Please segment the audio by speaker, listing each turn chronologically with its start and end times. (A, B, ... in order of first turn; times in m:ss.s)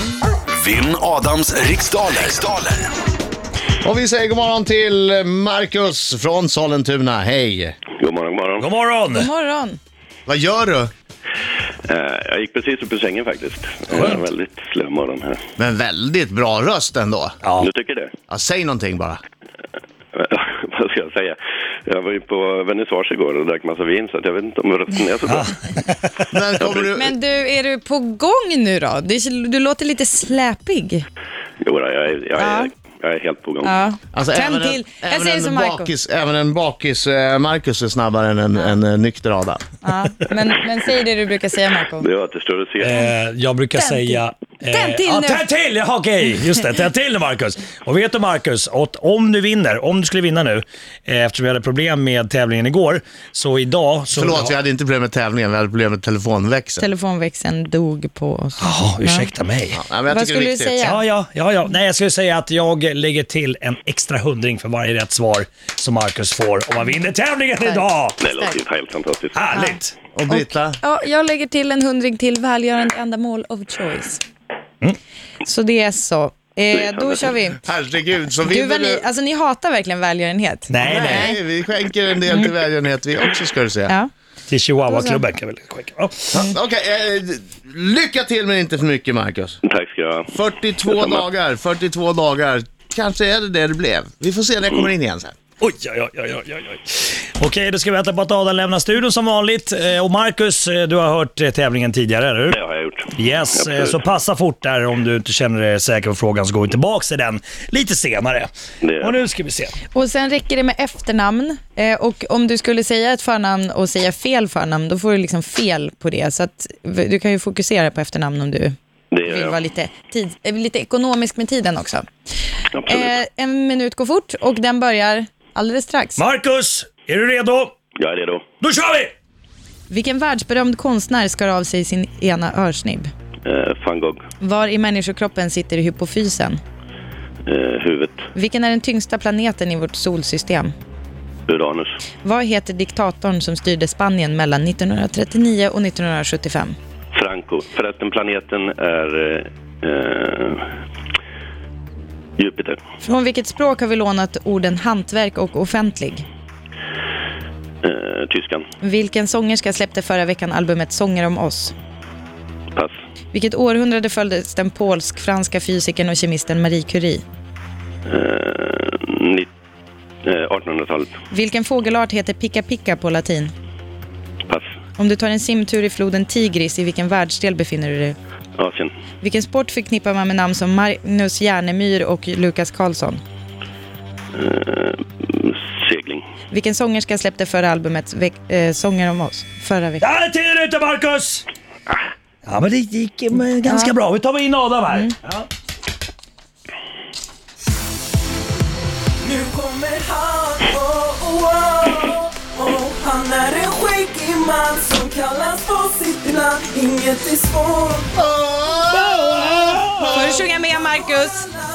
0:00.6-0:02.9 A
0:03.8-0:07.8 B
0:08.0-0:08.7 C
0:08.6-0:09.3 D
0:09.1-0:09.8 E
0:10.3-0:10.9 B
0:11.9-0:15.4 C
0:13.9-0:14.2 D
0:15.6-0:17.4 B
0:17.4-0:17.7 D
0:17.6-0:18.1 C
0:18.3-0:19.2 B
0:20.1-0:25.5 C
0:25.3-0:26.3 D
0:26.3-0:27.1 B
0:26.6-0:26.9 C
0:26.9-0:31.1 E
0:31.6-0:33.7 C
0:32.4-0:32.7 E
0:33.6-0:35.9 E
0:34.1-0:39.6 B
0:39.8-0:42.1 E
0:42.0-0:43.0 C
0:42.8-0:54.6 D
0:43.8-0:45.4 E
0:54.1-0:56.9 B
0:56.8-0:59.3 E
0:58.6-0:59.8 D
0:59.7-1:00.9 B
1:00.1-1:01.0 E
1:00.8-1:08.2 D
1:07.6-1:08.6 E
1:08.2-1:09.4 C
1:09.3-1:10.0 D
1:09.5-1:14.2 E
1:10.2-1:10.8 B
1:15.4-1:17.6 E
1:17.6-1:19.0 B
1:18.4-1:21.4 E
1:20.7-1:21.4 D
1:20.8-1:24.0 B
1:24.5-1:26.5 D
1:24.8-1:25.2 E
1:26.3-1:29.6 B
1:29.6-1:30.3 C
1:30.3-1:35.4 B
1:30.9-1:31.2 C
1:35.6-1:42.6 D
1:42.5-1:44.1 C
1:43.1-1:49.8 D
1:48.8-1:49.2 C
1:49.9-2:02.0 E
1:59.1-1:59.6 C
2:02.8-2:03.1 C
2:02.9-2:06.2 E
2:06.2-2:07.8 D
2:08.0-2:08.4 C
2:08.6-2:09.1 D
2:09.9-2:13.1 E
2:13.4-2:14.2 C
2:14.4-2:16.6 E
2:17.5-2:18.3 C
2:18.3-2:20.7 E
2:21.5-2:21.9 C
2:22.2-2:26.8 E
2:27.1-2:30.7 C
2:32.4-2:32.8 C
2:33.0-2:36.2 E
2:37.8-2:38.6 C
2:38.8-2:41.7 E
2:43.3-2:47.2 E
2:48.1-2:49.5 C
2:50.2-2:51.2 C
2:51.3-2:53.5 E
2:55.0-2:58.2 E
2:58.6-2:58.9 C
2:59.2-3:03.2 E
3:04.4-3:06.2 C
3:06.5-3:10.1 E
3:10.0-3:11.5 D
3:12.5-3:15.5 D
3:13.6-3:14.0 E
3:14.9-3:15.2 E
3:19.2-3:28.1 F
3:28.2-3:30.4 B
3:29.1-3:30.2 D
3:30.0-3:31.5 E